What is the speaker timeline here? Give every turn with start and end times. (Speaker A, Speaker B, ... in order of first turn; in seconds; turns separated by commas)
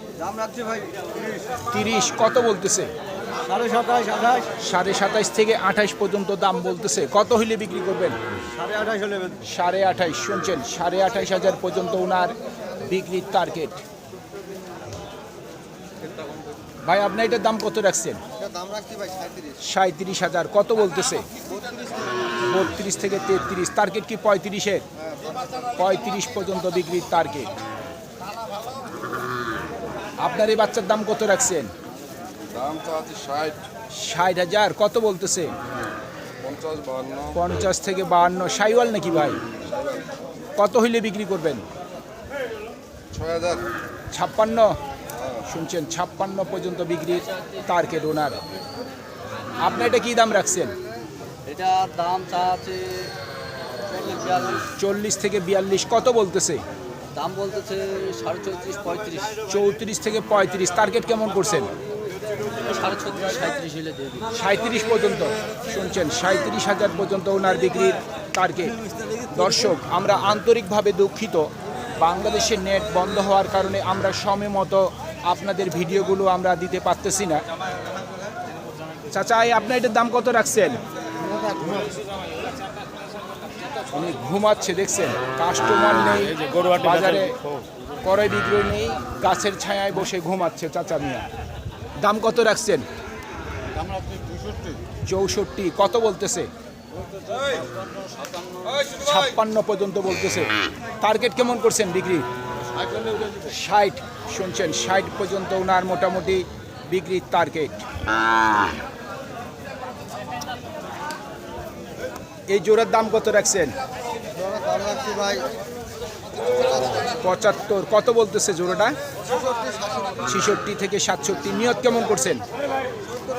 Speaker A: 0.2-1.5, Speaker B: 1.6-2.9, Speaker A: 3.5-4.5, Speaker B: 4.6-8.2, Speaker A: 8.6-9.4, Speaker B: 9.4-13.8, Speaker B: 16.8-18.2, Speaker A: 18.4-19.6, Speaker B: 19.6-21.3, Speaker B: 22.4-24.9, Speaker B: 25.7-27.5, Speaker B: 30.2-31.7, Speaker C: 32.5-33.6, Speaker B: 33.9-35.5, Speaker C: 36.5-37.2, Speaker B: 37.3-39.4, Speaker B: 40.5-41.6, Speaker C: 43.2-43.6, Speaker B: 44.1-44.8, Speaker B: 45.4-48.4, Speaker B: 49.6-50.8, Speaker A: 51.5-53.1, Speaker A: 53.9-54.7, Speaker B: 54.8-56.6, Speaker A: 57.1-59.4, Speaker B: 59.5-61.7, Speaker A: 62.7-64.3, Speaker B: 64.3-68.8, Speaker B: 69.3-77.4, Speaker B: 79.1-80.8, Speaker A: 81.3-81.9, Speaker B: 83.9-87.4, Speaker B: 88.0-91.3, Speaker B: 92.0-92.8, Speaker B: 95.0-96.5, Speaker B: 98.8-102.3, Speaker B: 103.3-107.8, Speaker B: 112.5-113.7, Speaker A: 114.3-115.5, Speaker B: 117.2-119.0, Speaker A: 119.3-120.2, Speaker B: 120.2-122.4